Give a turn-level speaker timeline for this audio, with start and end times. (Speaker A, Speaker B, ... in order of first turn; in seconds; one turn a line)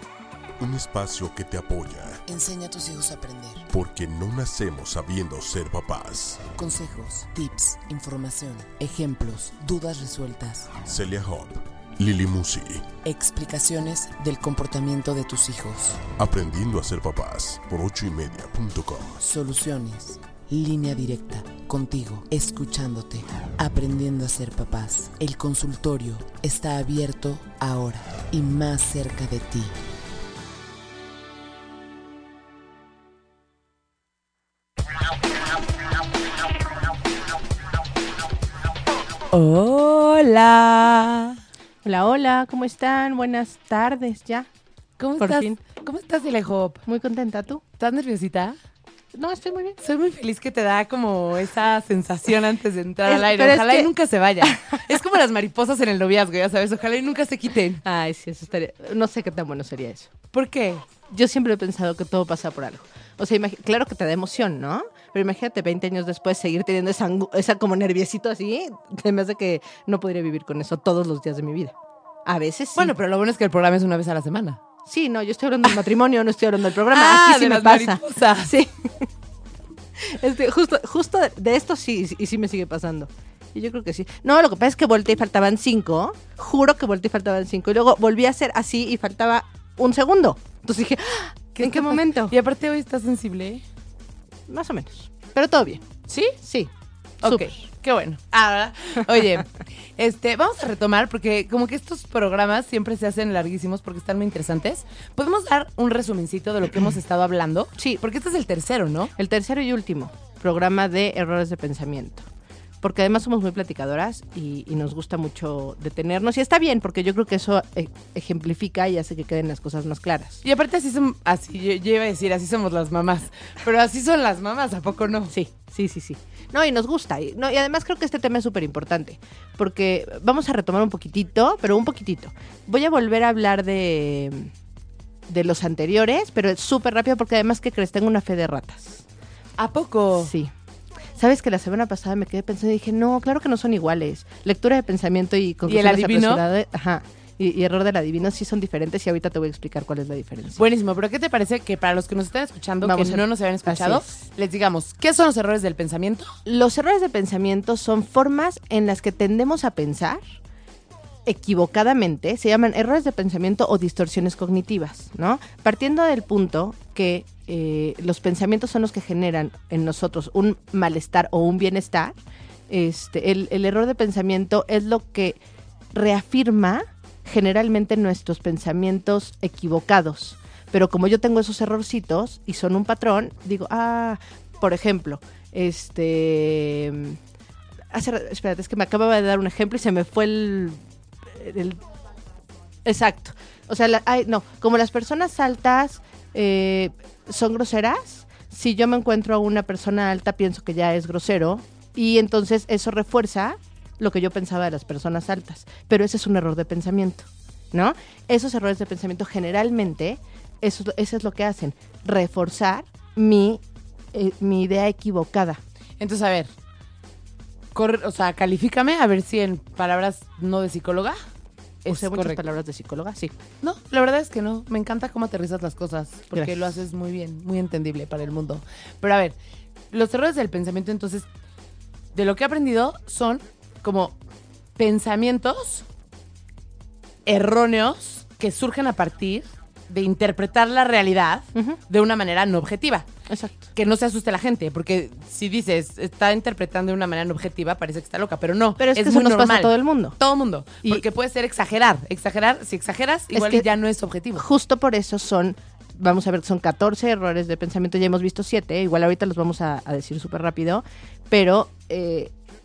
Speaker A: 0.6-2.2
Speaker B: 2.2-3.7
Speaker A: 3.7-6.5
Speaker B: 6.5-10.8
Speaker A: 10.8-12.9
Speaker B: 13.0-16.1
Speaker A: 16.2-19.2
Speaker B: 19.2-29.7
Speaker C: 39.3-41.4
Speaker D: 41.8-44.5
Speaker C: 45.0-46.8
Speaker D: 45.2-45.6
Speaker D: 46.9-47.6
Speaker C: 47.8-48.6
Speaker D: 49.1-49.8
Speaker C: 49.8-57.8
Speaker D: 53.0-53.9
Speaker D: 54.5-54.8
Speaker D: 57.8-60.1
Speaker C: 60.3-60.9
Speaker D: 61.1-71.8
Speaker D: 72.3-72.9
Speaker C: 72.8-74.6
Speaker D: 74.9-79.1
Speaker C: 76.8-78.5
Speaker D: 80.0-92.3
Speaker C: 91.6-93.6
Speaker D: 94.5-95.8
Speaker C: 96.1-96.4
Speaker D: 96.4-96.7
Speaker C: 97.2-109.1
Speaker D: 97.2-97.6
Speaker D: 109.2-112.3
Speaker D: 112.8-120.4
Speaker C: 120.4-125.3
Speaker D: 125.3-134.5
Speaker D: 135.3-139.0
Speaker C: 139.6-140.3
Speaker D: 140.2-140.5
Speaker D: 141.2-150.6
Speaker C: 145.7-146.4
Speaker C: 150.6-156.3
Speaker D: 152.8-154.1
Speaker D: 156.4-160.2
Speaker D: 161.2-172.2
Speaker D: 172.7-175.4
Speaker D: 175.9-187.2
Speaker D: 187.9-191.8
Speaker D: 192.8-215.6
Speaker C: 216.0-216.5
Speaker C: 217.7-221.2
Speaker C: 221.8-222.4
Speaker D: 221.9-223.3
Speaker C: 223.6-229.3
Speaker D: 226.3-226.7
Speaker C: 229.9-231.3
Speaker C: 232.1-234.2
Speaker C: 234.8-235.8
Speaker C: 237.2-243.1
Speaker D: 243.3-243.7
Speaker C: 243.7-254.4
Speaker D: 248.8-250.2
Speaker D: 253.3-253.7
Speaker D: 254.3-262.3